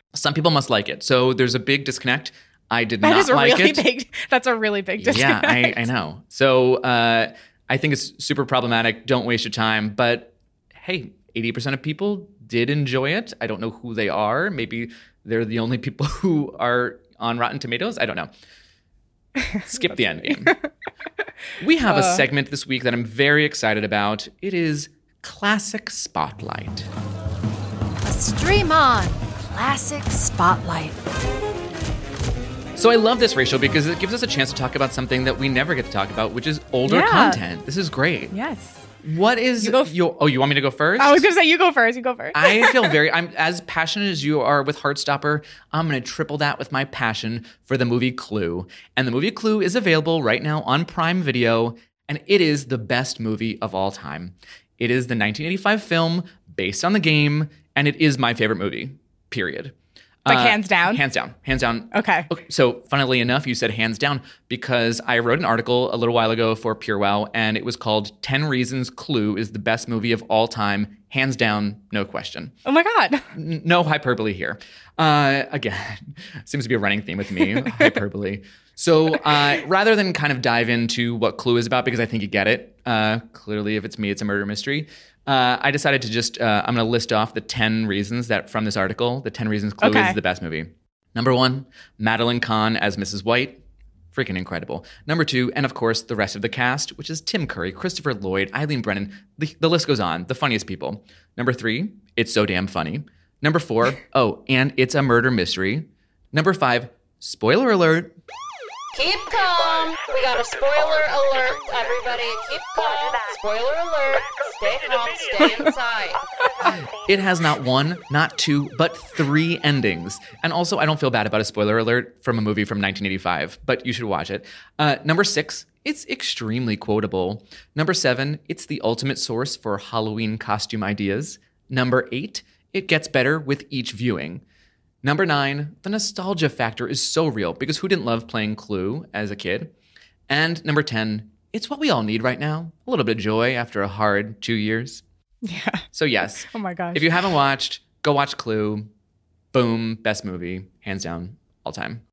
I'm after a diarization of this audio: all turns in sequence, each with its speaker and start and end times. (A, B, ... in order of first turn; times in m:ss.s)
0:00.1-0:03.8 A
0:03.0-0:05.9 B
0:05.0-0:18.3 A
0:19.6-0:20.6 A
0:20.4-0:20.7 B
0:21.6-0:26.9 A
0:21.9-0:22.2 B
0:28.0-0:31.0 C
0:32.8-0:38.3 A
0:36.9-0:37.4 B
0:38.3-0:38.9 B
0:39.0-0:41.3 A
0:39.6-0:39.9 B
0:41.0-0:43.0 B
0:42.3-1:12.5 A
1:00.3-1:01.0 B
1:01.9-1:02.3 B
1:12.6-1:13.3 B
1:13.3-1:33.6 A
1:29.8-1:30.2 B
1:34.1-1:48.2 A
1:48.9-1:56.2 D
1:56.6-2:14.4 A
2:15.0-2:19.7 A
2:20.3-2:25.0 A
2:25.4-2:25.8 B
2:25.9-2:28.9 A
2:26.5-2:27.2 B
2:29.5-2:32.0 A